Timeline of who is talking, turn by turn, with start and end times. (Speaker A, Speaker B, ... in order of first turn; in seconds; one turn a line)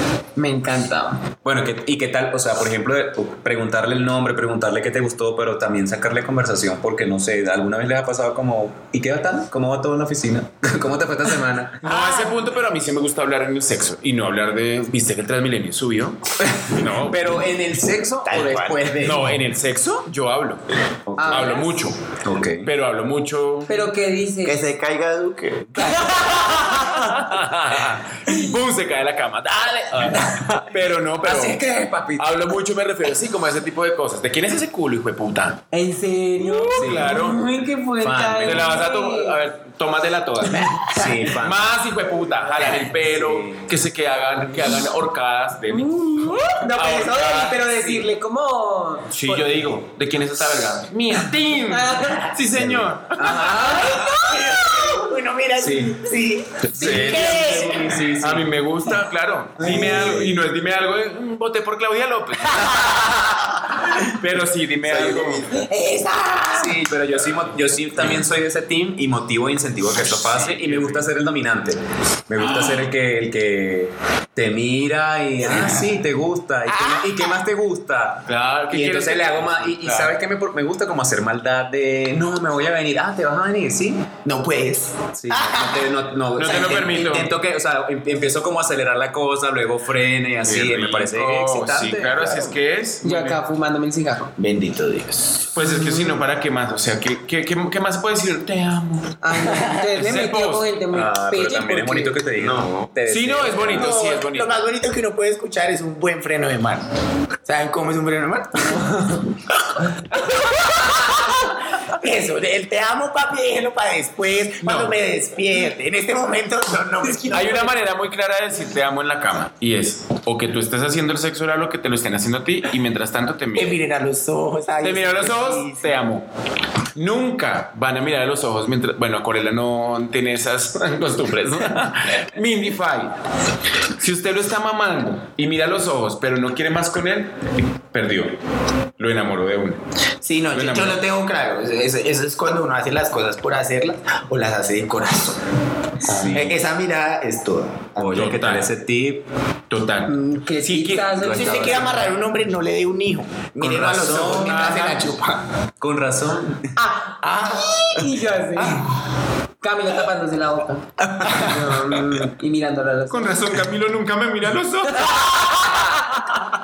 Speaker A: 0.4-1.2
Speaker B: 1.4-11.9
Speaker C: 11.8-17.2
Speaker B: 16.4-19.3
Speaker D: 18.2-18.9
Speaker C: 19.0-20.6
Speaker B: 21.1-21.6
Speaker A: 21.2-21.7
Speaker C: 21.3-22.0
Speaker B: 22.2-22.7
Speaker C: 22.6-23.9
Speaker A: 23.7-24.6
Speaker D: 24.4-26.1
Speaker A: 25.8-27.1
Speaker C: 26.7-31.6
Speaker B: 31.2-32.2
Speaker C: 32.2-35.6
Speaker A: 35.7-39.4
Speaker C: 36.4-37.4
Speaker B: 36.8-37.2
Speaker B: 38.0-38.7
Speaker C: 38.5-47.9
Speaker E: 40.5-41.2
Speaker B: 40.9-41.6
Speaker B: 42.5-43.6
Speaker E: 42.6-42.9
Speaker A: 45.7-49.1
Speaker C: 49.1-53.5
Speaker A: 51.7-52.3
Speaker B: 52.5-54.1
Speaker A: 53.5-54.4
Speaker E: 54.1-58.0
Speaker B: 55.6-56.0
Speaker C: 56.7-63.1
Speaker B: 56.7-58.5
Speaker B: 59.6-60.4
Speaker C: 64.0-65.5
Speaker B: 64.9-65.5
Speaker A: 65.5-66.6
Speaker B: 66.5-84.1
Speaker C: 70.1-71.1
Speaker E: 75.4-75.9
Speaker E: 76.7-77.3
Speaker C: 78.3-80.2
Speaker E: 84.2-87.0
Speaker B: 85.2-92.6
Speaker C: 86.4-87.3
Speaker C: 90.4-93.4
Speaker A: 93.0-94.3
Speaker E: 94.4-95.4
Speaker C: 95.5-99.2
Speaker A: 95.6-96.2
Speaker A: 99.2-102.2
Speaker E: 99.5-99.9
Speaker C: 100.0-100.7
Speaker B: 100.9-103.9
Speaker D: 102.4-102.9
Speaker C: 103.1-104.6
Speaker E: 103.7-106.8
Speaker E: 107.5-108.9
Speaker E: 110.1-117.7
Speaker C: 114.6-115.0
Speaker A: 117.1-117.7
Speaker C: 117.3-123.8
Speaker E: 123.5-126.0
Speaker C: 124.8-126.3
Speaker C: 127.0-133.1
Speaker C: 134.0-138.4
Speaker C: 139.0-139.8
Speaker E: 140.2-145.4
Speaker C: 140.5-141.0
Speaker B: 146.0-146.6
Speaker E: 146.3-148.2
Speaker B: 148.0-149.2
Speaker C: 148.1-148.7
Speaker C: 149.7-151.8
Speaker A: 150.1-151.8
Speaker E: 151.2-155.4
Speaker B: 151.3-151.9
Speaker B: 153.6-154.8
Speaker C: 154.4-155.0
Speaker B: 155.8-156.7
Speaker A: 156.8-158.8
Speaker E: 157.2-158.1
Speaker A: 159.6-163.4
Speaker B: 161.1-161.6
Speaker C: 163.1-165.6
Speaker A: 165.7-166.3